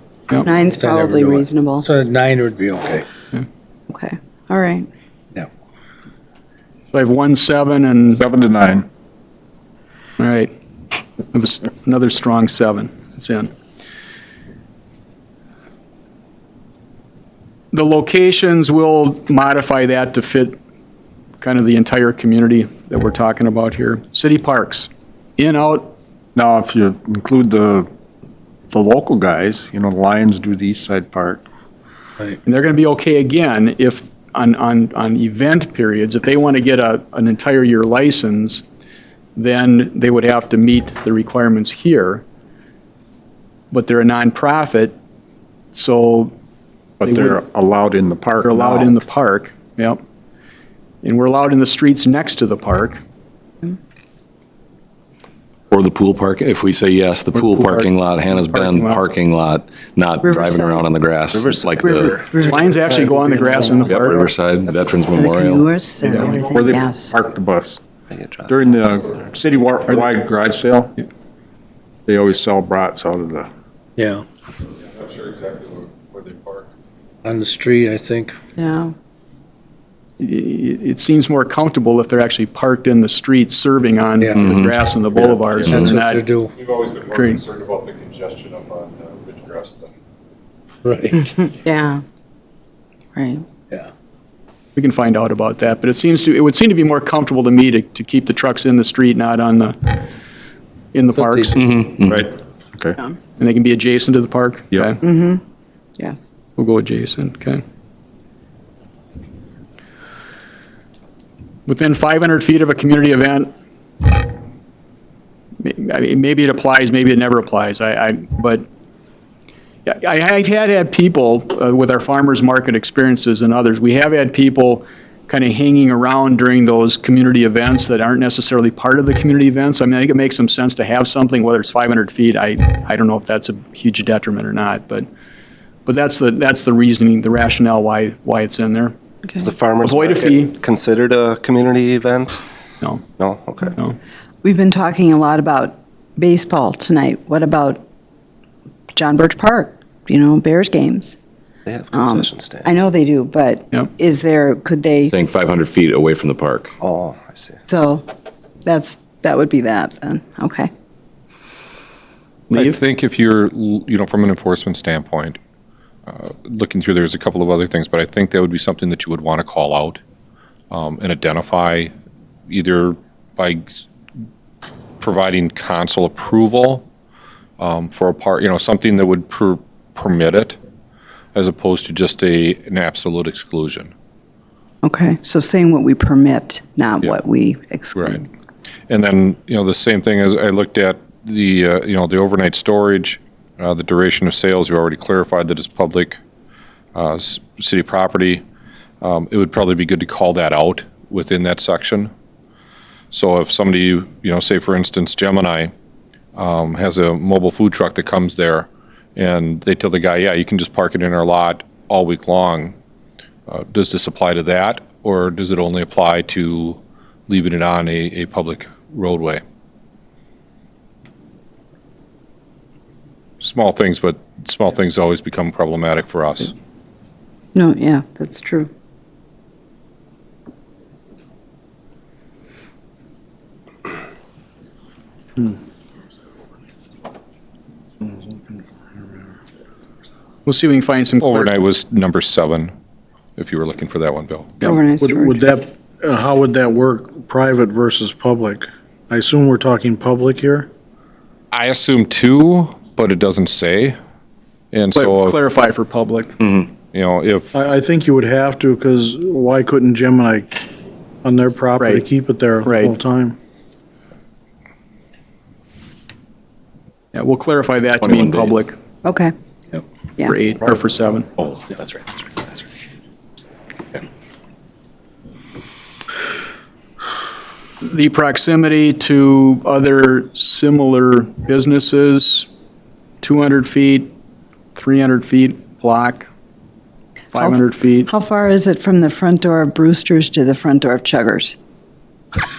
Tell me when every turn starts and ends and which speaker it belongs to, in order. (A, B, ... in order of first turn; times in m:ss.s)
0:00.4-0:01.9 A
0:00.5-0:03.0 B
0:03.9-0:04.9 A
0:06.9-0:08.2 C
0:08.1-0:08.9 D
0:10.2-0:10.5 C
0:11.3-0:13.5 C
0:17.7-0:20.6 C
0:21.4-0:25.9 C
0:26.3-0:27.9 D
0:28.7-0:31.4 D
0:32.4-0:38.6 C
0:39.4-0:42.2 C
0:43.7-0:44.9 C
0:45.7-0:46.3 C
0:47.0-0:49.0 D
0:47.0-0:47.4 C
0:48.4-0:50.0 C
0:51.0-0:53.0 C
0:55.7-1:02.1 E
0:57.3-0:59.0 C
1:00.2-1:00.9 A
1:01.3-1:05.0 F
1:01.8-1:02.9 A
1:02.3-1:04.3 C
1:03.4-1:03.8 A
1:03.8-1:05.7 E
1:05.1-1:07.1 A
1:06.0-1:06.4 C
1:06.1-1:07.8 D
1:08.1-1:08.8 F
1:08.5-1:10.9 D
1:12.1-1:13.5 D
1:14.0-1:14.2 B
1:15.0-1:16.7 G
1:17.2-1:18.4 B
1:18.6-1:18.9 A
1:20.2-1:26.2 C
1:24.2-1:26.5 B
1:24.4-1:24.7 E
1:25.6-1:25.9 G
1:26.6-1:29.9 G
1:27.1-1:27.4 C
1:30.8-1:31.3 B
1:31.5-1:32.0 A
1:33.1-1:33.4 A
1:34.8-1:40.0 C
1:40.9-1:41.9 C
1:41.1-1:41.5 B
1:41.6-1:42.2 E
1:42.1-1:43.0 D
1:43.4-1:45.0 C
1:45.0-1:45.4 A
1:46.6-1:47.6 C
1:51.7-1:53.5 C
1:55.6-1:58.6 C
1:59.8-2:15.1 C
2:15.8-2:18.9 C
2:19.4-2:22.4 F
2:19.8-2:20.5 C
2:23.2-2:23.7 F
2:24.4-2:27.8 A
2:28.9-2:31.2 A
2:31.7-2:32.8 F
2:31.9-2:35.1 A
2:35.1-2:36.7 E
2:36.8-2:37.6 F
2:37.7-2:38.0 A
2:38.6-2:40.7 A
2:42.5-2:42.8 C
2:42.5-2:45.4 G
2:46.1-2:50.0 G
2:50.7-2:51.9 G
2:52.5-2:53.6 G
2:55.0-2:56.8 G
2:57.6-3:00.6 G
3:01.3-3:03.9 G
3:04.8-3:08.3 A
3:08.9-3:16.2 G
3:16.9-3:18.4 G
3:19.0-3:22.1 G
3:23.1-3:25.7 G
3:26.4-3:32.7 G
3:33.5-3:39.4 G
3:43.4-3:46.5 G
3:47.5-3:48.7 A
3:58.0-3:58.6 H
4:00.4-4:01.6 C
4:01.2-4:02.7 G
4:03.4-4:04.7 G
4:04.6-4:05.4 A
4:05.0-4:10.7 H
4:11.5-4:14.0 G
4:14.7-4:15.4 G
4:15.0-4:16.4 C
4:16.8-4:17.5 G
4:17.5-4:20.6 H
4:21.2-4:23.4 H
4:21.8-4:22.0 C
4:22.6-4:23.0 C
4:27.1-4:28.8 C
4:28.0-4:28.6 E
4:29.0-4:29.3 A
4:30.2-4:31.3 C
4:37.8-4:42.5 C
4:43.2-4:44.1 C
4:44.8-4:46.3 C
4:47.3-4:48.1 C
4:47.4-4:51.6 A